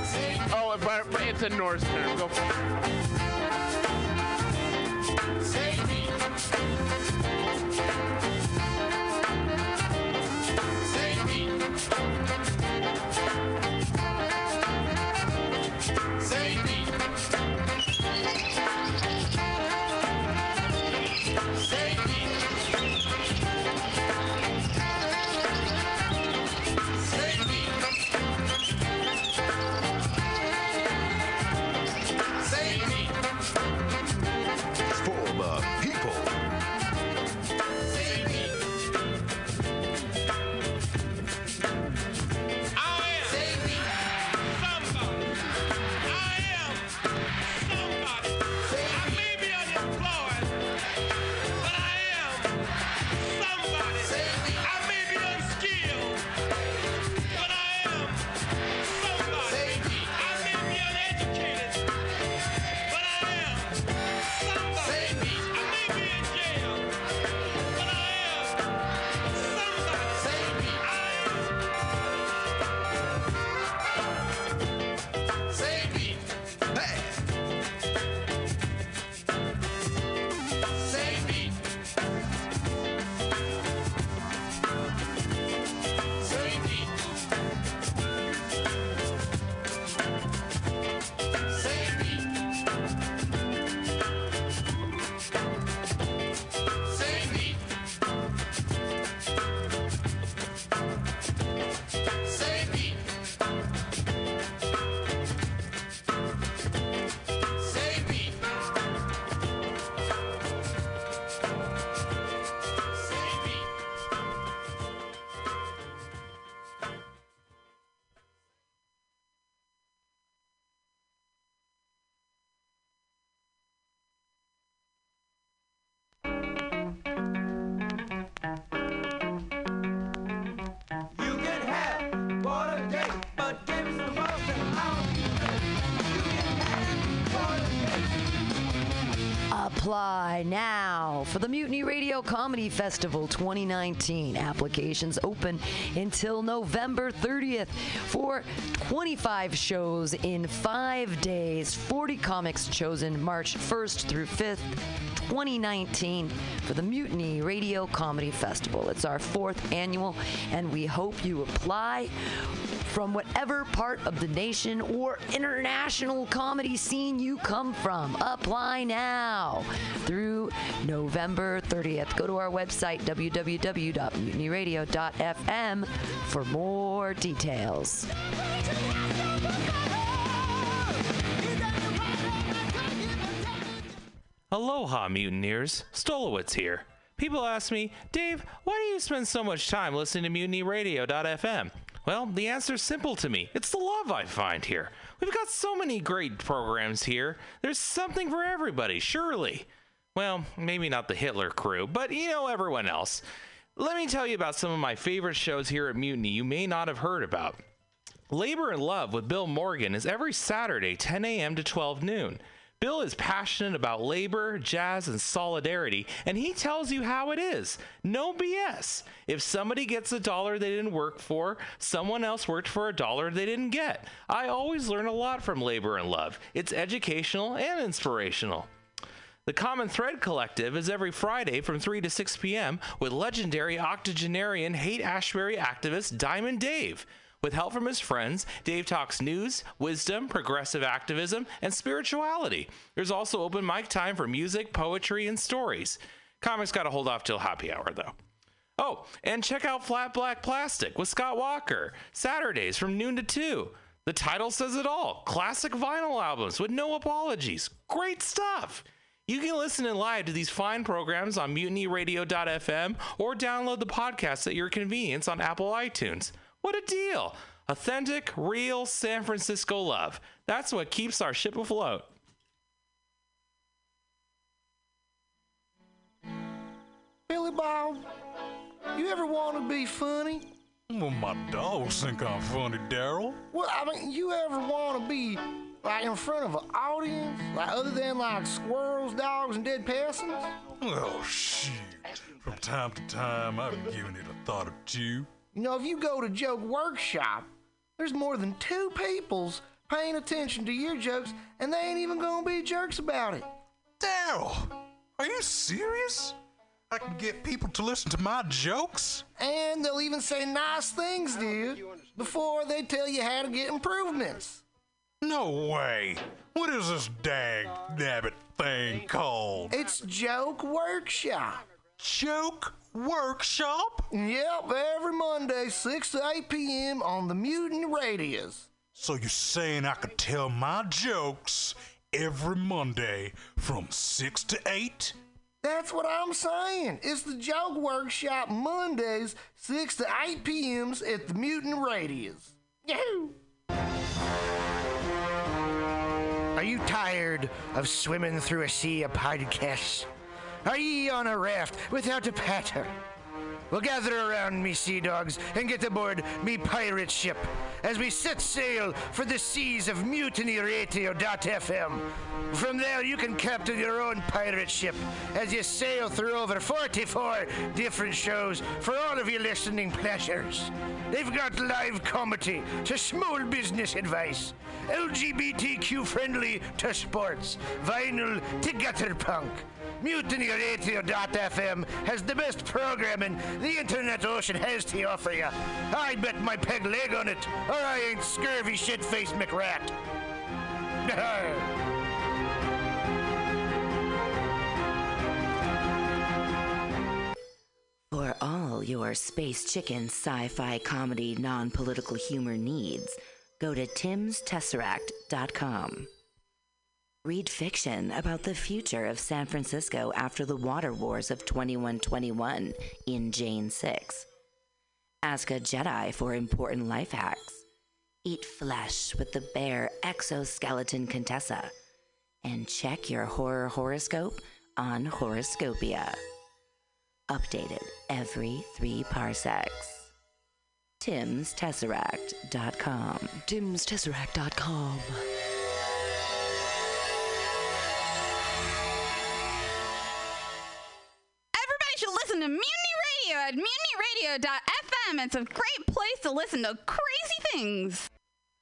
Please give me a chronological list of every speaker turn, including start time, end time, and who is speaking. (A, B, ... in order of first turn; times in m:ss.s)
0:00.1-0:02.4 A
0:55.1-0:56.1 B
2:19.5-2:58.1 C
3:04.5-3:23.2 D
3:23.8-3:27.6 D
3:28.3-3:48.7 D
3:49.4-4:08.1 D
4:08.8-4:32.1 D
4:37.3-4:38.0 E
4:38.9-4:40.5 E
4:40.9-4:43.4 B
4:43.5-4:50.5 E
4:50.8-4:55.3 B
4:55.5-5:03.5 E
5:04.0-5:06.4 B
5:06.9-5:09.2 B
5:09.4-5:14.6 E
5:15.2-5:19.8 B
5:19.7-5:21.6 E
5:22.0-5:24.1 B
5:24.1-5:28.7 E
5:28.9-5:35.1 B
5:35.6-5:43.3 E
5:46.5-5:50.1 E
5:50.6-5:52.9 E
5:53.7-6:29.9 E
6:31.0-6:31.7 E
6:38.1-6:46.1 F
6:47.2-6:54.2 F
6:55.2-6:57.6 F
6:58.2-7:01.7 F
7:02.4-7:06.2 F
7:07.3-7:10.1 F
7:11.0-7:13.4 F
7:13.5-7:15.2 C
7:21.5-7:28.0 G